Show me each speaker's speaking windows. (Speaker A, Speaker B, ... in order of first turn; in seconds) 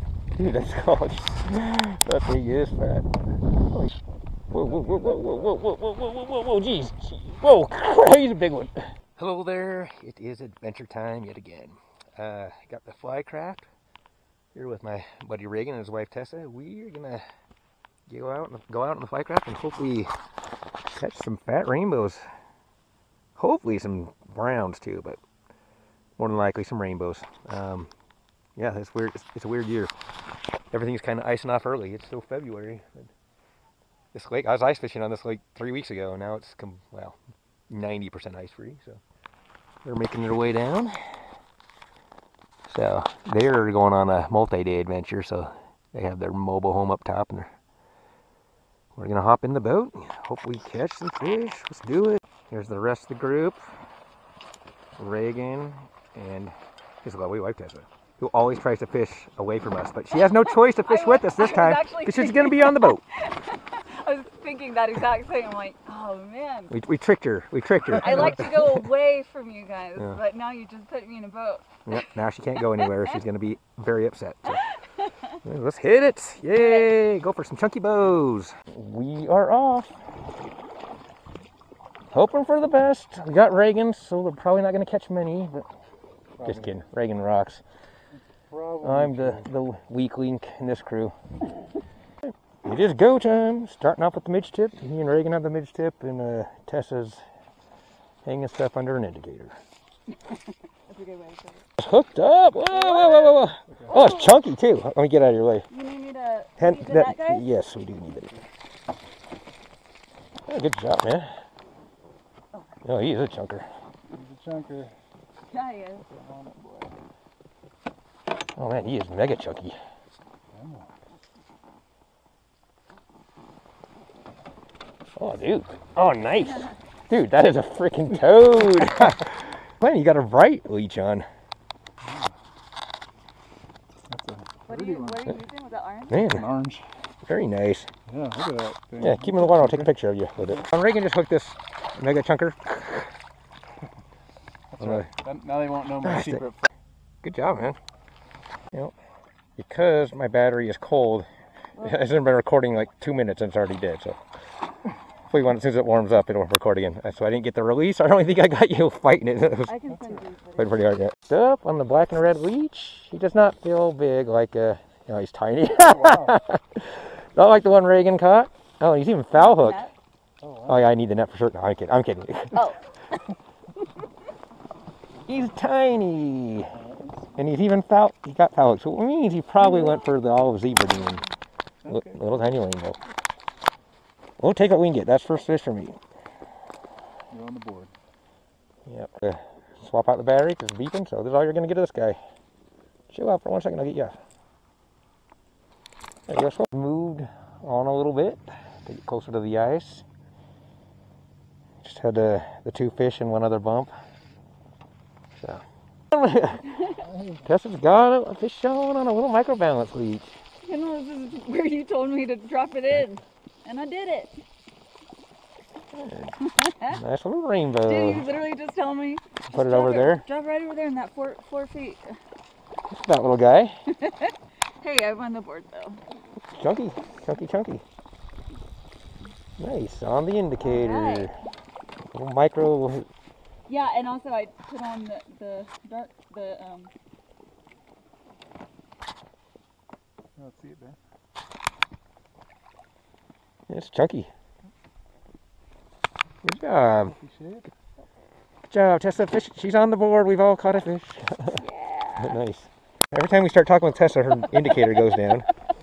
Speaker A: 0.4-3.1, 4.5-13.7, 14.5-17.2, 18.1-20.1, 20.9-22.2, 23.4-25.2, 26.2-27.9, 28.6-29.9, 30.7-33.1, 34.1-37.2, 37.7-39.0, 39.9-41.0, 42.7-47.5, 49.0-53.6, 55.0-63.0, 66.7-68.8, 71.9-74.7, 75.4-79.9, 82.1-85.7, 86.4-87.6, 88.8-91.1, 92.2-97.2, 98.2-99.6, 101.8-105.7, 106.6-108.4, 110.5-111.3, 112.8-113.7, 118.6-119.8, 125.2-131.3, 136.1-136.5, 137.3-137.9, 139.0-143.1, 144.8-145.1, 146.0-146.4, 147.2-147.8, 149.6-151.3, 151.8-154.2, 155.3-159.8, 160.6-169.8, 170.7-172.6, 175.3-176.7, 177.4-181.2, 181.9-183.0, 184.4-186.0, 188.9-192.2, 193.1-194.2, 196.3-200.1, 201.8-203.9, 205.4-210.4, 215.9-218.3, 219.5-220.2, 222.9-223.8, 226.5-227.8, 229.6-231.3, 232.1-233.1, 243.7-244.3, 246.4-247.2, 248.7-251.6, 252.2-255.5
Speaker B: 4.6-5.5, 86.4-86.8, 88.2-89.5, 103.7-104.0, 114.1-115.0, 116.1-116.9, 120.5-120.9, 132.0-132.3, 134.1-135.3, 136.1-136.8, 138.1-139.9, 144.7-146.7, 159.9-160.2, 165.8-166.4, 170.4-170.9, 176.7-177.4, 181.8-182.5, 187.3-187.9, 207.0-207.5, 240.4-241.0, 247.1-247.7
Speaker C: 60.1-66.7, 67.9-73.2, 76.5-76.9, 100.3-101.7, 102.7-104.4, 105.7-107.5, 112.5-112.8, 115.5-116.1, 126.3-126.7, 134.7-136.2, 151.8-152.0, 159.7-161.0, 169.3-169.9, 172.5-172.8, 179.6-180.1, 180.9-181.3, 210.6-214.4, 216.4-217.0, 217.8-222.2, 223.9-226.0, 230.6-231.3, 233.7-236.9, 251.5-252.4